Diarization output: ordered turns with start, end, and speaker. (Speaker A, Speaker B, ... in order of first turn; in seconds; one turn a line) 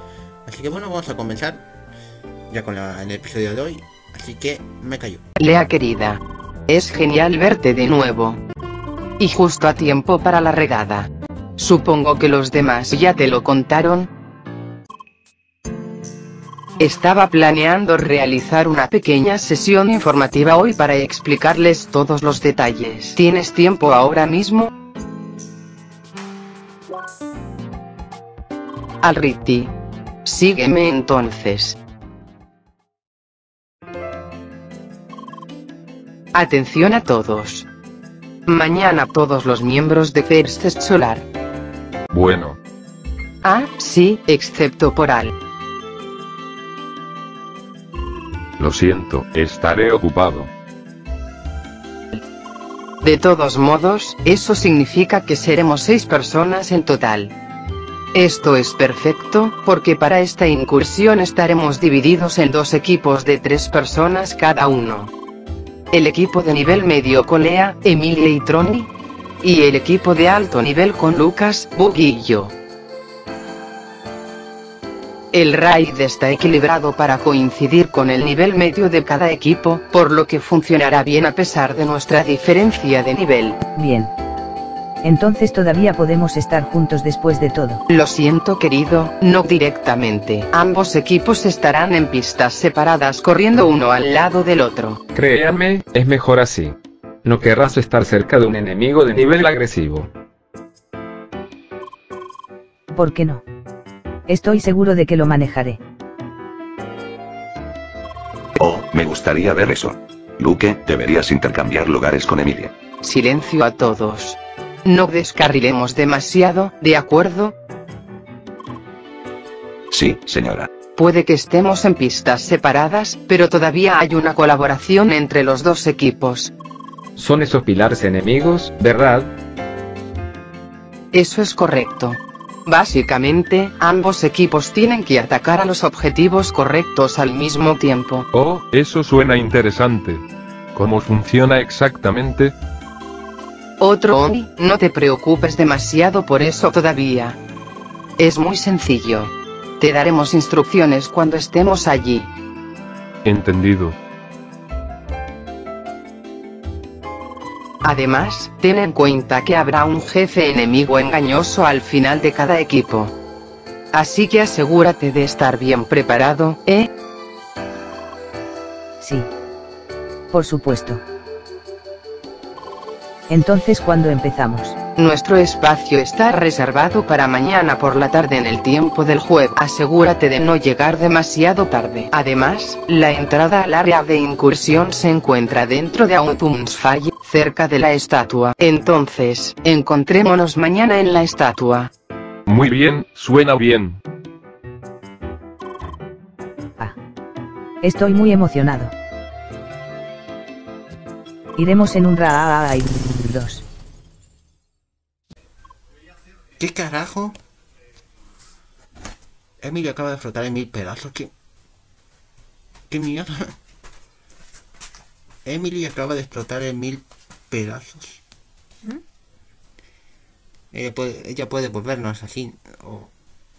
Speaker A: 0.5-1.7
Speaker A: 2.5-5.2
Speaker B: 5.4-8.4
Speaker B: 9.2-14.1
Speaker B: 16.8-24.7
Speaker B: 29.0-29.7
Speaker B: 30.2-31.8
Speaker B: 36.3-37.6
Speaker B: 38.5-41.2
Speaker C: 42.1-42.6
Speaker B: 43.4-45.3
Speaker C: 48.6-50.5
Speaker B: 53.0-57.3
Speaker B: 58.1-65.1
Speaker B: 65.9-68.9
Speaker B: 69.4-72.5
Speaker B: 75.3-83.6
Speaker D: 83.7-84.1
Speaker D: 85.0-87.8
Speaker B: 87.9-95.0
Speaker E: 95.1-100.1
Speaker D: 102.9-103.4
Speaker D: 104.3-105.8
Speaker F: 108.6-112.7
Speaker B: 113.0-117.5
Speaker F: 119.9-120.7
Speaker B: 121.0-126.5
Speaker E: 127.2-129.3
Speaker B: 131.1-138.2
Speaker C: 138.3-140.2
Speaker C: 140.7-142.5
Speaker B: 143.8-147.4
Speaker B: 148.2-152.3
Speaker C: 153.2-153.9
Speaker B: 157.8-163.1
Speaker B: 163.9-166.9
Speaker D: 169.0-169.3
Speaker D: 170.3-171.0
Speaker D: 173.3-174.8
Speaker B: 175.0-191.9
Speaker C: 192.5-194.0
Speaker D: 197.8-198.9
Speaker D: 201.6-203.6
Speaker A: 206.6-207.4
Speaker A: 209.6-211.3
Speaker A: 212.9-213.6
Speaker A: 215.4-218.2
Speaker A: 220.7-223.1